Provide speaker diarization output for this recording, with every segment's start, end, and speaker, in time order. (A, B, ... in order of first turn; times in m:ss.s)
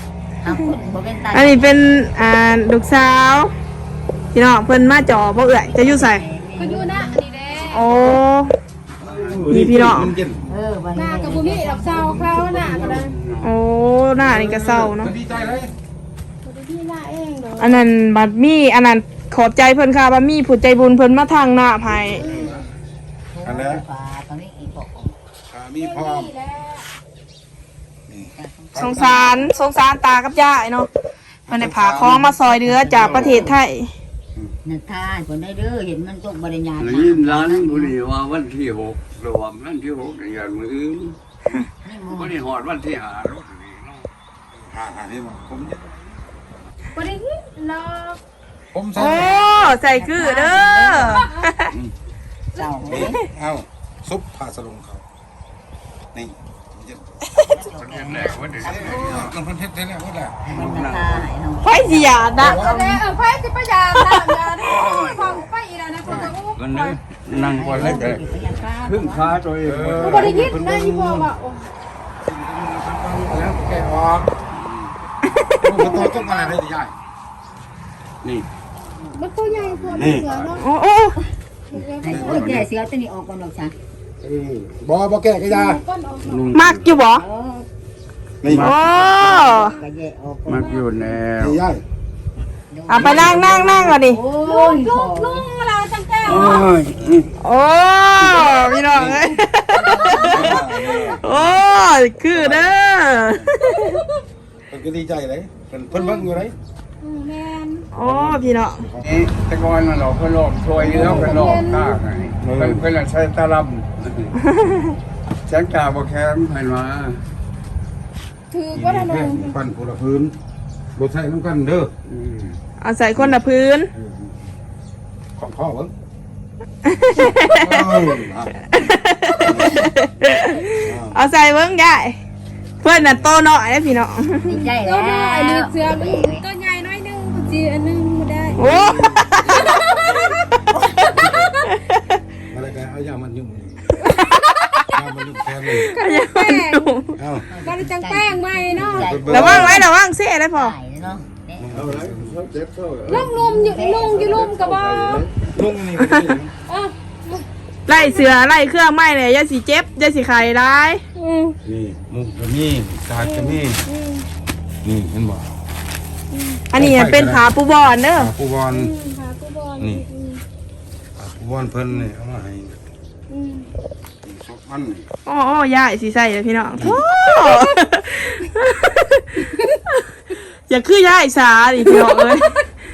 0:00.4-0:01.8 A
0:01.3-0:03.5 B
0:04.3-0:06.2 B
0:05.7-0:07.2 A
0:06.6-0:07.9 C
0:07.7-0:08.5 B
0:09.0-0:10.1 D
0:09.0-0:10.4 E
0:09.5-0:10.2 B
0:10.5-0:12.2 A
0:10.9-0:13.1 C
0:12.1-0:13.5 D
0:13.4-0:15.1 B
0:14.2-0:15.7 E
0:16.4-0:17.8 C
0:17.6-0:22.2 B
0:21.9-0:22.6 E
0:22.1-0:22.6 A
0:23.3-0:25.2 A
0:23.4-0:23.8 E
0:25.5-0:26.3 E
0:25.8-0:26.9 C
0:28.1-0:29.2 E
0:28.3-0:29.5 A
0:28.8-0:30.9 B
0:31.5-0:32.2 E
0:31.5-0:33.9 B
0:31.9-0:33.6 A
0:33.0-0:33.5 D
0:34.6-0:38.0 A
0:36.8-0:41.2 D
0:41.8-0:42.4 A
0:42.1-0:44.1 D
0:44.6-0:45.9 E
0:46.9-0:48.2 C
0:48.7-0:49.4 E
0:49.0-0:51.7 B
0:49.0-0:51.3 A
0:51.1-0:51.6 C
0:52.6-0:53.1 C
0:52.6-0:53.2 A
0:52.9-0:55.0 E
0:56.1-0:57.0 E
0:57.4-0:59.3 A
0:57.7-0:59.4 D
0:58.6-1:00.4 E
1:00.4-1:03.0 A
1:00.5-1:01.3 D
1:01.6-1:02.6 B
1:02.4-1:07.0 C
1:04.0-1:04.4 B
1:04.5-1:05.5 D
1:06.0-1:06.4 A
1:06.6-1:07.0 E
1:06.6-1:10.5 D
1:07.3-1:09.4 A
1:09.6-1:11.3 E
1:10.0-1:11.7 C
1:12.2-1:14.3 E
1:14.5-1:14.9 D
1:15.3-1:16.1 B
1:15.6-1:17.0 E
1:15.8-1:16.6 C
1:19.1-1:20.7 C
1:19.8-1:20.5 E
1:19.8-1:20.5 D
1:20.5-1:21.2 B
1:21.7-1:22.6 C
1:22.0-1:23.8 A
1:22.1-1:22.5 E
1:22.1-1:22.7 D
1:24.2-1:25.8 E
1:25.5-1:26.5 C
1:26.2-1:26.9 D
1:26.5-1:27.2 B
1:26.9-1:27.7 A
1:28.4-1:28.8 E
1:28.4-1:29.0 D
1:28.5-1:29.7 B
1:28.7-1:30.7 A
1:29.2-1:29.8 C
1:30.5-1:31.6 D
1:30.6-1:30.9 C
1:31.4-1:31.8 E
1:32.7-1:35.5 A
1:32.9-1:34.2 B
1:33.0-1:33.5 E
1:34.4-1:36.7 C
1:36.2-1:37.3 D
1:37.4-1:40.7 B
1:38.4-1:38.6 C
1:38.9-1:39.4 E
1:39.7-1:41.2 A
1:40.3-1:41.6 E
1:41.2-1:44.0 B
1:42.3-1:42.8 E
1:44.7-1:46.6 E
1:45.9-1:46.3 C
1:47.0-1:47.9 C
1:47.9-1:49.1 E
1:48.0-1:48.8 B
1:49.0-1:54.4 D
1:50.8-1:52.0 C
1:50.8-1:51.4 E
1:52.4-1:52.8 E
1:54.5-1:54.8 B
1:55.5-1:57.2 D
1:58.5-1:59.6 C
1:58.7-2:00.4 E
2:01.0-2:01.9 E
2:02.1-2:02.6 D
2:02.8-2:03.9 B
2:04.0-2:04.3 E
2:05.4-2:05.9 E
2:06.8-2:07.9 B
2:07.5-2:08.6 E
2:08.6-2:12.2 B
2:10.8-2:11.2 E
2:12.8-2:14.6 B
2:14.4-2:16.4 A
2:14.7-2:18.9 C
2:18.6-2:20.0 B
2:18.6-2:19.3 D
2:19.5-2:20.3 C
2:21.0-2:21.7 C
2:21.1-2:21.6 E
2:22.5-2:23.9 E
2:24.0-2:24.9 C
2:24.1-2:24.9 B
2:24.9-2:25.9 E
2:25.8-2:29.3 C
2:25.9-2:27.2 B
2:27.2-2:27.5 E
2:27.5-2:29.9 A
2:28.8-2:29.9 E
2:29.3-2:30.8 B
2:30.5-2:31.7 A
2:31.6-2:32.4 E
2:31.7-2:33.4 D
2:33.1-2:35.3 C
2:33.2-2:34.3 A
2:33.9-2:35.5 D
2:35.5-2:36.5 E
2:36.0-2:36.4 B
2:36.7-2:37.5 C
2:37.9-2:41.0 B
2:41.2-2:41.6 C
2:41.7-2:43.8 E
2:43.2-2:44.3 C
2:44.8-2:45.5 E
2:46.3-2:46.7 C
2:46.7-2:48.3 B
2:46.7-2:47.5 E
2:48.2-2:48.9 E
2:48.7-2:50.4 C
2:49.8-2:50.0 E
2:51.2-2:52.8 E
2:53.3-2:53.7 C
2:54.2-2:55.0 E
2:55.3-2:59.4 B
2:56.8-2:57.0 E
3:00.7-3:02.5 B
3:01.8-3:02.5 C